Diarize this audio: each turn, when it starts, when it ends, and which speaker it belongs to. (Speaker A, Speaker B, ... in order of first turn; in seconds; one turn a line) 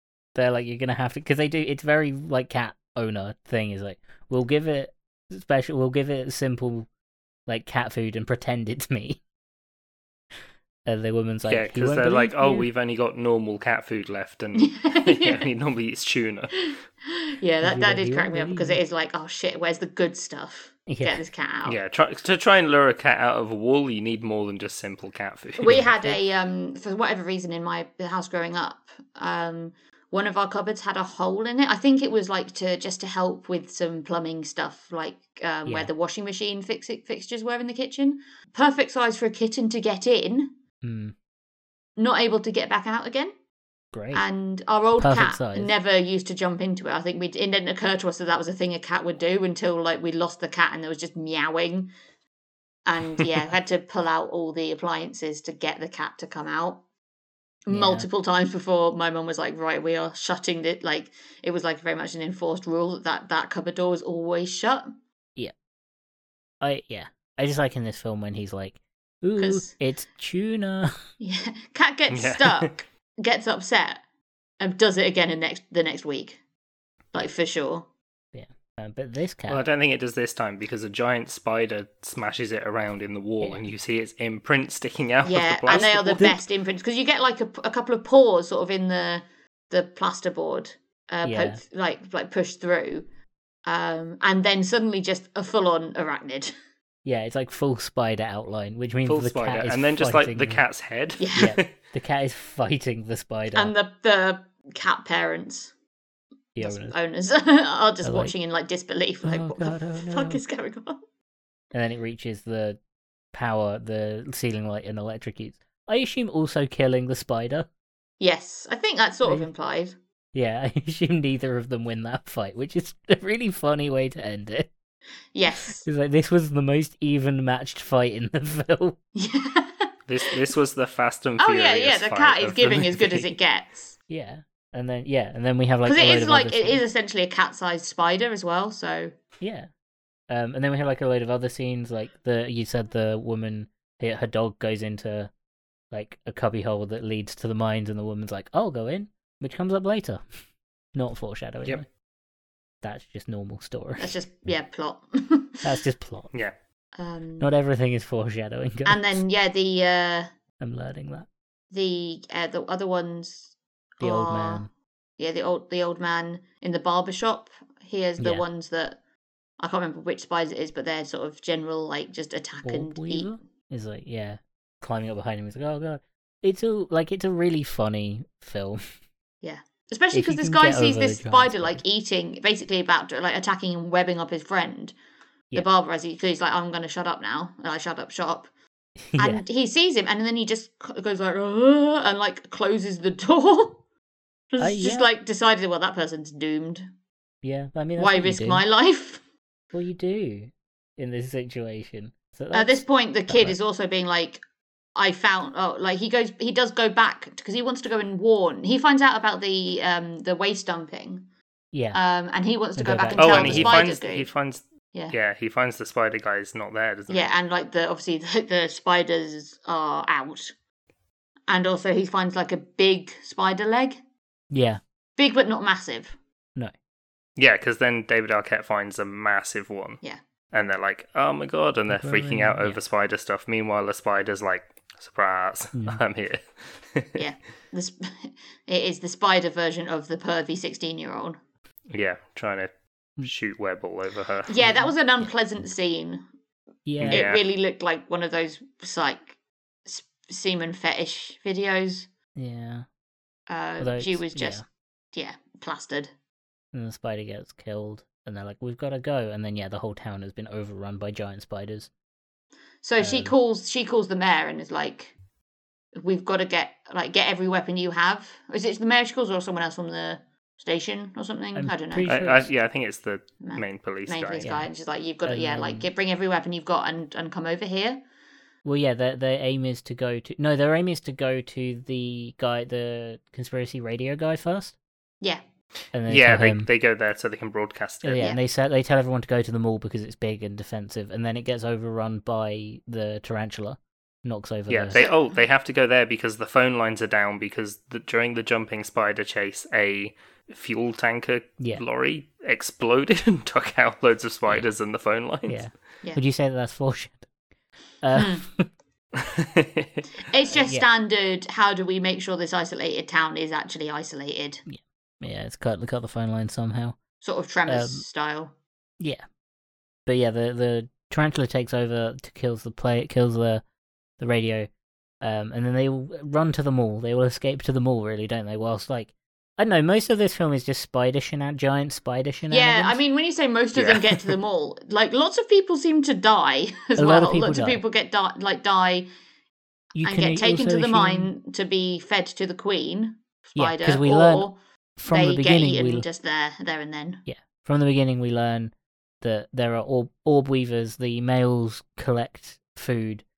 Speaker A: 0.3-6.9
Speaker A: 7.5-9.2
Speaker A: 10.8-12.7
Speaker B: 11.5-16.7
Speaker C: 14.6-15.4
Speaker C: 16.7-21.8
Speaker A: 17.6-18.8
Speaker A: 20.9-21.2
Speaker B: 21.6-25.9
Speaker C: 25.6-40.5
Speaker A: 25.7-26.2
Speaker A: 35.6-35.9
Speaker A: 40.8-41.1
Speaker C: 42.0-43.3
Speaker A: 43.9-44.2
Speaker C: 44.1-51.9
Speaker A: 45.0-45.7
Speaker C: 52.9-56.8
Speaker C: 57.6-64.9
Speaker A: 57.7-58.1
Speaker A: 66.6-70.9
Speaker C: 69.4-69.7
Speaker C: 71.2-74.0
Speaker B: 72.1-72.7
Speaker C: 74.6-76.4
Speaker C: 77.1-77.8
Speaker A: 78.3-79.6
Speaker B: 79.5-86.3
Speaker C: 85.2-93.0
Speaker A: 85.7-86.4
Speaker A: 91.2-91.6
Speaker C: 93.7-96.5
Speaker A: 97.0-100.6
Speaker B: 99.0-101.7
Speaker C: 101.2-101.5
Speaker A: 101.3-103.7
Speaker C: 103.5-105.7
Speaker A: 106.5-106.9
Speaker C: 106.6-111.0
Speaker A: 108.0-108.3
Speaker A: 109.2-110.4
Speaker A: 111.7-112.8
Speaker A: 113.3-117.7
Speaker C: 118.2-120.0
Speaker A: 120.3-124.7
Speaker C: 125.3-125.8
Speaker A: 125.8-128.9
Speaker C: 129.2-130.3
Speaker B: 130.1-133.3
Speaker C: 131.4-133.9
Speaker A: 134.1-136.8
Speaker C: 135.8-139.2
Speaker A: 139.4-139.7
Speaker A: 140.3-145.3
Speaker A: 145.9-150.2
Speaker A: 150.9-151.8
Speaker A: 152.8-154.2
Speaker C: 154.0-155.7
Speaker A: 155.6-156.3
Speaker C: 156.9-157.5
Speaker A: 157.4-159.2
Speaker C: 158.8-160.3
Speaker A: 160.6-161.3
Speaker C: 161.7-164.7
Speaker A: 164.0-164.7
Speaker C: 165.2-169.0
Speaker A: 168.2-168.4
Speaker C: 169.6-173.3
Speaker A: 172.6-178.8
Speaker C: 179.4-184.9
Speaker A: 180.1-181.8
Speaker C: 185.5-188.5
Speaker A: 189.1-189.4
Speaker C: 189.2-193.8
Speaker C: 194.5-196.8
Speaker A: 194.6-195.1
Speaker A: 197.4-198.6
Speaker C: 198.0-199.2
Speaker A: 199.7-203.6
Speaker C: 202.5-204.4
Speaker C: 204.9-211.2
Speaker A: 211.7-212.0
Speaker C: 211.9-214.3
Speaker A: 212.8-213.8
Speaker B: 213.2-217.3
Speaker C: 217.1-220.5
Speaker C: 221.5-224.0
Speaker A: 224.5-224.8
Speaker C: 225.2-226.1
Speaker B: 227.4-230.0
Speaker B: 230.5-237.2
Speaker A: 231.9-232.8
Speaker A: 235.7-236.0
Speaker C: 237.2-241.4
Speaker B: 241.9-242.7
Speaker B: 243.2-244.6
Speaker C: 244.5-246.2
Speaker A: 244.6-245.3
Speaker A: 246.8-247.2
Speaker B: 247.0-247.4
Speaker C: 247.1-252.1
Speaker A: 252.3-252.8
Speaker C: 253.5-254.6
Speaker A: 253.8-254.6
Speaker C: 255.1-256.1
Speaker A: 256.7-261.9
Speaker C: 262.8-265.1
Speaker A: 263.0-263.3
Speaker C: 265.9-272.1
Speaker A: 271.5-272.5
Speaker B: 272.1-274.5
Speaker C: 273.4-278.0
Speaker A: 274.4-274.7
Speaker A: 275.2-275.9
Speaker A: 278.6-284.8
Speaker A: 285.9-286.7
Speaker B: 286.1-288.2
Speaker A: 288.0-295.0
Speaker B: 294.7-305.6
Speaker C: 294.9-295.4
Speaker A: 305.5-307.3
Speaker A: 308.0-308.7
Speaker C: 308.1-308.4
Speaker B: 309.2-310.1
Speaker C: 310.3-314.6
Speaker A: 310.5-310.9
Speaker A: 314.7-317.0
Speaker C: 317.2-318.5
Speaker A: 317.7-318.0
Speaker A: 320.1-323.6
Speaker A: 324.2-324.7
Speaker A: 325.2-333.0
Speaker C: 332.5-339.1
Speaker A: 337.0-337.8
Speaker A: 339.9-341.3
Speaker C: 340.0-344.6
Speaker A: 343.6-346.1
Speaker C: 345.1-347.2
Speaker A: 347.3-353.2